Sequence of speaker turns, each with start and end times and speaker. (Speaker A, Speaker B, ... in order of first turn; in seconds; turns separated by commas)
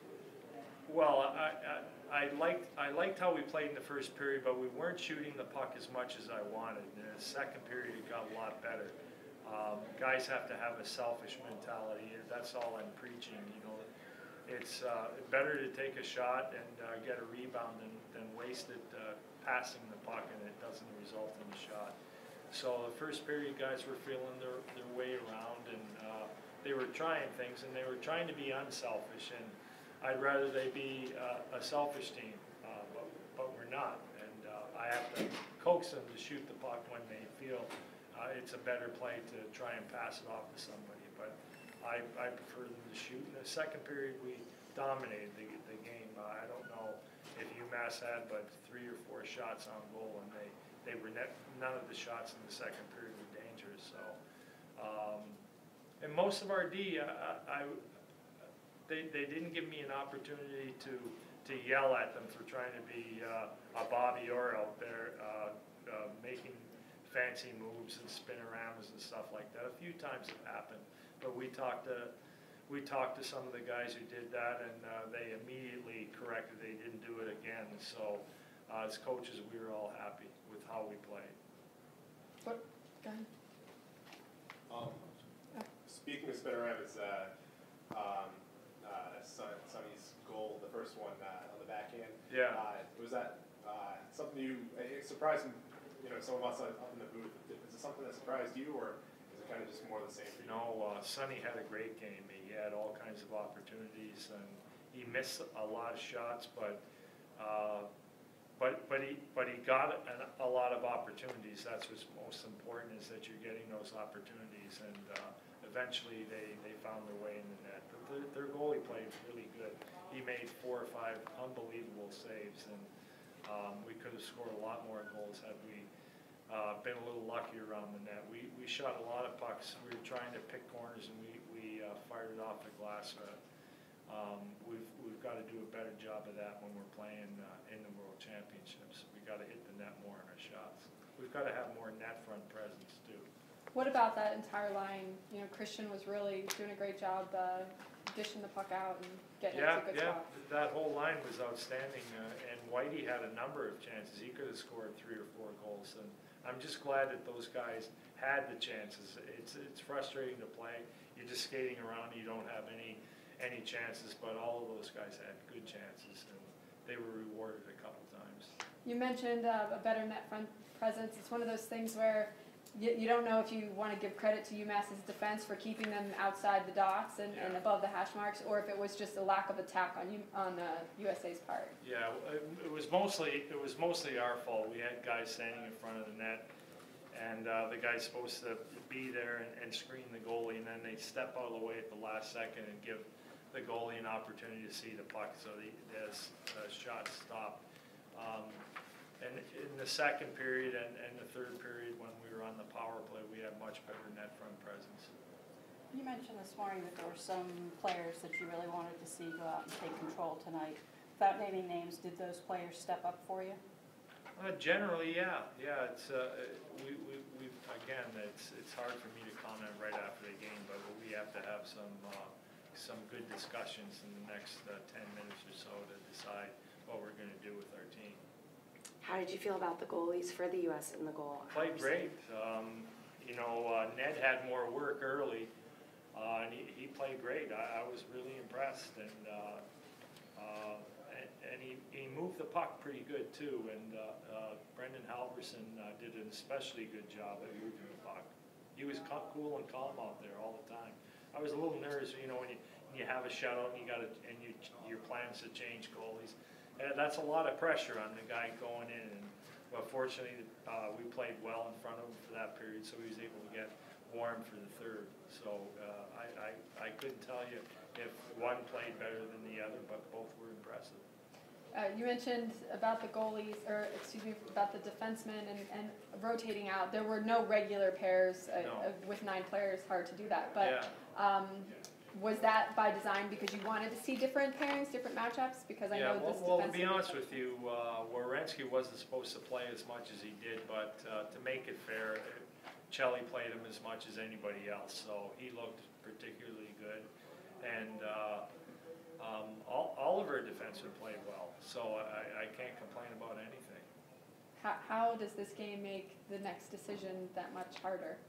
Speaker A: 0.9-13.8, Speaker A: 14.5-21.9, Speaker A: 22.5-54.2, Speaker A: 54.8-55.4, Speaker A: 56.0-57.8, Speaker A: 58.9-72.1, Speaker A: 72.7-81.3, Speaker B: 82.4-83.3, Speaker C: 84.7-85.0, Speaker C: 85.8-87.3, Speaker C: 87.9-100.6, Speaker A: 92.3-92.6, Speaker A: 100.4-106.8, Speaker A: 107.4-107.9, Speaker A: 108.5-122.9, Speaker A: 123.4-125.9, Speaker A: 126.5-133.4, Speaker A: 134.1-143.3, Speaker B: 143.7-150.2, Speaker A: 149.5-168.5, Speaker B: 168.8-181.7, Speaker A: 177.3-177.6, Speaker A: 181.8-186.5, Speaker A: 187.1-197.6, Speaker A: 198.1-198.6, Speaker A: 199.2-205.1, Speaker D: 205.9-213.6, Speaker A: 214.4-228.2, Speaker E: 229.0-232.0, Speaker A: 231.5-235.5, Speaker A: 236.1-239.6, Speaker A: 240.4-271.0, Speaker B: 271.7-287.1, Speaker A: 278.6-278.9, Speaker A: 280.6-280.9, Speaker A: 285.9-297.1, Speaker A: 297.6-298.4, Speaker A: 299.2-303.9, Speaker B: 304.6-308.2